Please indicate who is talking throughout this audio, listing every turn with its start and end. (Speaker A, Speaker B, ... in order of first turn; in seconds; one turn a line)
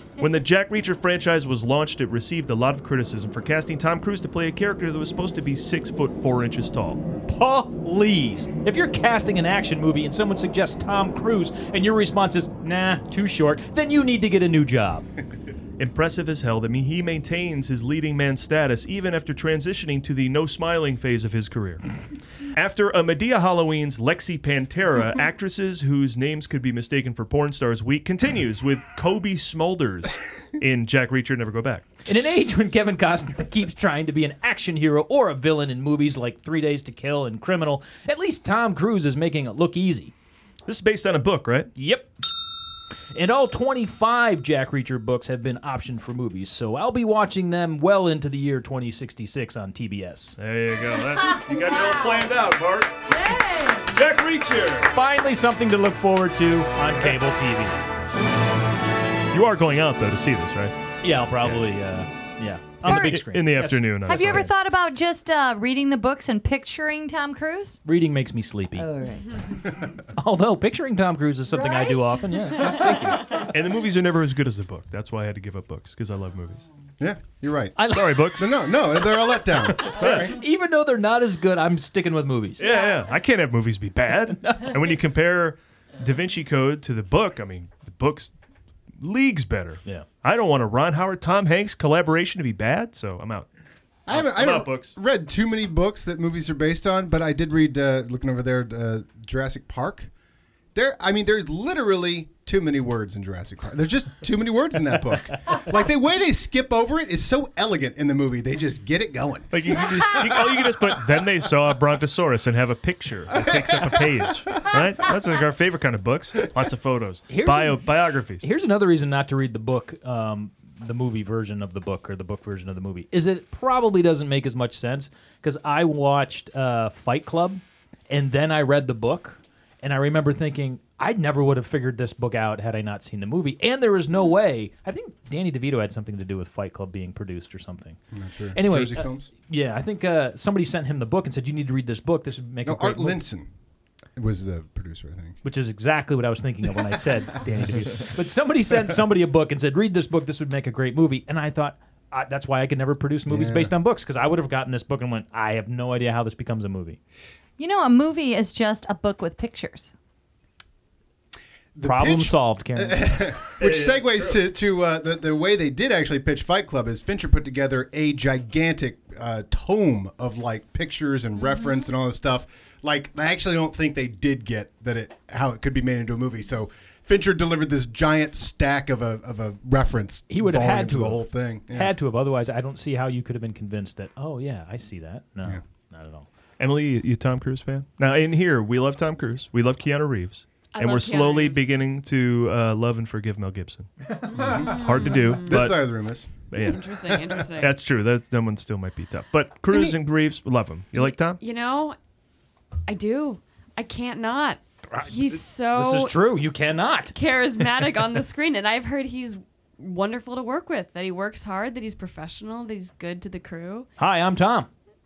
Speaker A: 0.2-7.0
Speaker B: 7.3-15.1
Speaker A: 15.8-21.8
Speaker A: 22.5-31.8
Speaker B: 32.0-40.1
Speaker A: 40.6-41.7
Speaker B: 41.8-42.1
Speaker B: 43.1-50.4
Speaker A: 50.4-53.0
Speaker C: 51.3-52.2
Speaker C: 53.1-53.9
Speaker A: 53.9-54.9
Speaker B: 54.9-57.8
Speaker A: 59.3-60.7
Speaker B: 61.0-64.5
Speaker A: 62.8-64.5
Speaker C: 62.9-63.2
Speaker C: 64.0-67.8
Speaker B: 67.8-68.9
Speaker C: 68.8-69.8
Speaker B: 70.1-73.5
Speaker C: 71.5-72.9
Speaker A: 73.3-76.6
Speaker D: 77.0-80.3
Speaker B: 77.8-78.4
Speaker A: 77.9-78.5
Speaker A: 79.8-80.3
Speaker B: 80.0-82.7
Speaker A: 82.6-88.3
Speaker B: 84.4-84.7
Speaker A: 89.0-93.5
Speaker D: 94.1-100.1
Speaker A: 94.1-94.9
Speaker D: 100.7-110.2
Speaker A: 109.5-118.4
Speaker D: 113.3-113.7
Speaker B: 117.3-138.0
Speaker D: 138.1-139.3
Speaker B: 138.5-143.2
Speaker D: 142.6-143.5
Speaker D: 144.2-145.4
Speaker B: 145.4-157.0
Speaker D: 153.3-153.7
Speaker C: 157.6-159.9
Speaker D: 161.7-181.9
Speaker B: 161.8-163.3
Speaker A: 163.6-164.4
Speaker B: 180.3-186.3
Speaker A: 186.6-195.8
Speaker E: 190.7-191.8
Speaker E: 194.3-195.5
Speaker D: 194.3-196.5
Speaker A: 196.5-196.8
Speaker E: 196.6-197.8
Speaker A: 197.4-201.4
Speaker E: 200.9-201.9
Speaker E: 202.9-206.2
Speaker B: 204.9-207.2
Speaker E: 207.1-213.9
Speaker B: 214.0-214.7